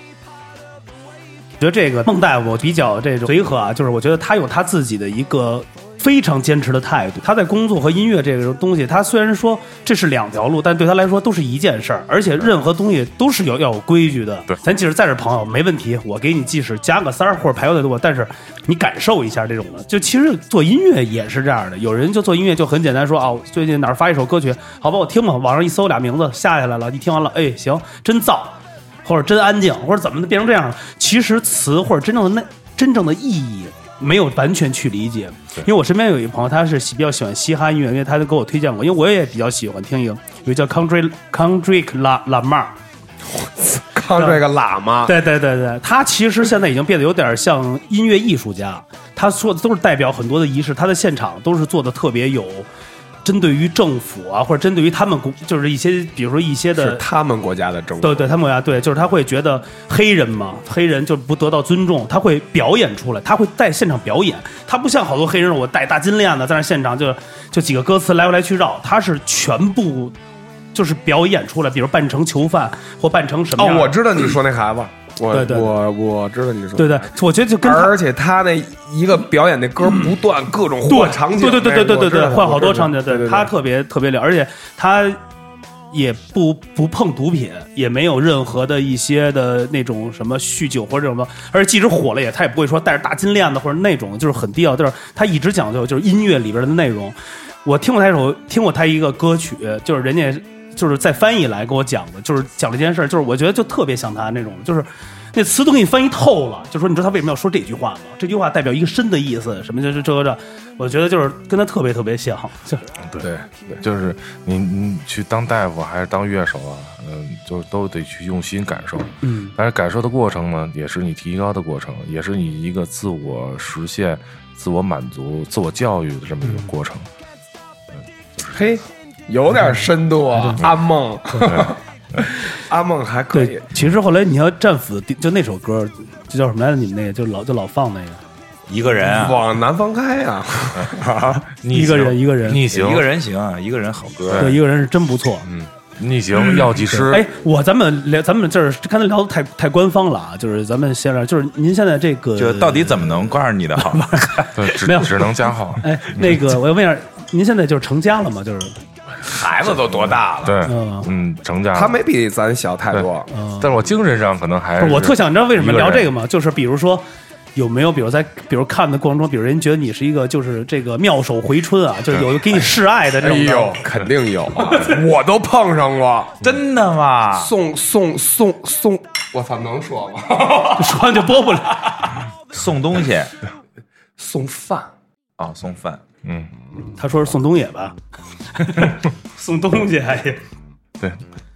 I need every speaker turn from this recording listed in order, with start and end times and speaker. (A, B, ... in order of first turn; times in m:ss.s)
0:01.6-0:42.8 A
0:43.2-0:45.1 B
0:45.0-0:52.7 A
0:53.2-0:57.0 A
0:56.8-0:58.3 B
0:58.0-1:10.1 A
1:10.7-1:14.0 A
1:13.6-1:17.1 B
1:15.3-1:15.8 A
1:16.8-1:17.9 A
1:17.6-1:23.5 B
1:20.9-1:25.2 A
1:25.9-1:52.8 A
1:53.0-2:07.1 C
1:53.4-1:53.8 B
1:59.2-1:59.5 A
2:06.4-2:06.7 A
2:08.4-2:13.6 B
2:10.3-2:10.6 A
2:11.3-2:11.6 A
2:13.3-2:18.2 A
2:18.7-2:19.4 D
2:19.0-2:21.4 B
2:20.7-2:23.1 C
2:21.7-2:22.6 A
2:22.7-2:24.6 D
2:24.3-2:24.6 C
2:24.4-2:25.5 A
2:25.4-2:27.2 C
2:26.4-2:33.2 A
2:32.4-2:34.5 D
2:33.9-2:38.8 A
2:34.5-2:36.5 C
2:39.3-2:40.7 B
2:40.4-2:42.0 C
2:40.6-2:41.1 A
2:41.7-2:43.3 B
2:42.9-2:46.1 C
2:43.3-2:43.7 A
2:44.8-2:53.8 A
2:53.2-2:56.5 B
2:54.6-2:54.9 A
2:56.4-2:57.5 D
2:57.3-3:01.1 B
3:00.8-3:02.0 A
3:02.5-3:03.3 D
3:04.2-3:04.9 B
3:05.4-3:06.0 D
3:06.2-3:06.5 C
3:06.8-3:08.0 A
3:08.5-3:10.4 A